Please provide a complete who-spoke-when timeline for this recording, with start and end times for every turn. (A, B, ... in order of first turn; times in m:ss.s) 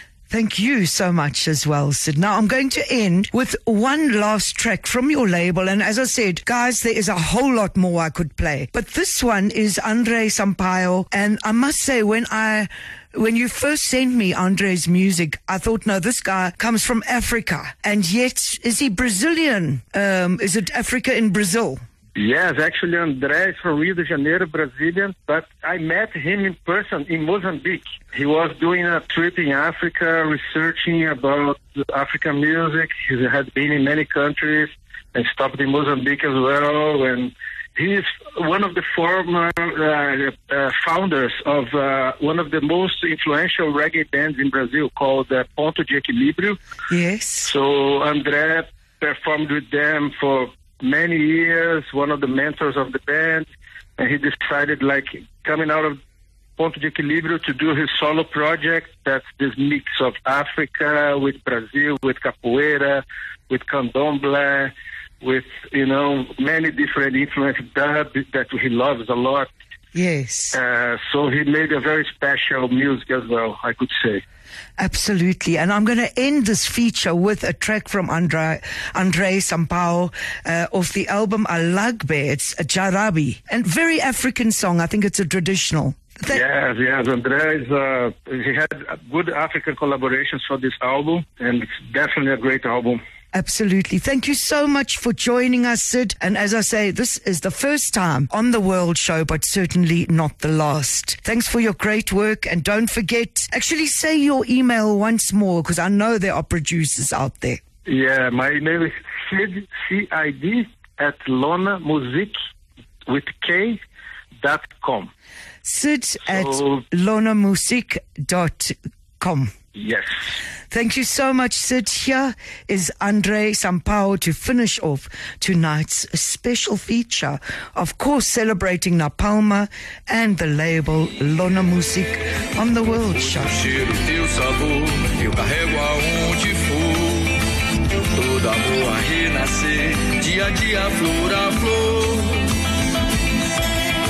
0:00.3-0:21.8 A
0:22.2-0:46.6 B
0:46.9-0:47.5 A
0:47.4-0:53.5 B
0:54.0-0:56.0 B
0:56.6-1:09.5 B
1:09.9-1:10.6 A
1:10.5-1:14.2 B
1:14.8-1:26.4 A
1:26.3-1:33.0 B
1:33.3-1:47.6 A
1:47.9-1:52.4 B
1:53.1-1:53.8 B
1:54.4-1:55.1 B
1:55.6-1:59.5 A
1:56.3-1:56.8 B
1:59.7-2:00.3 B
2:00.7-2:13.6 A
2:13.4-2:17.4 C
2:18.1-2:22.5 C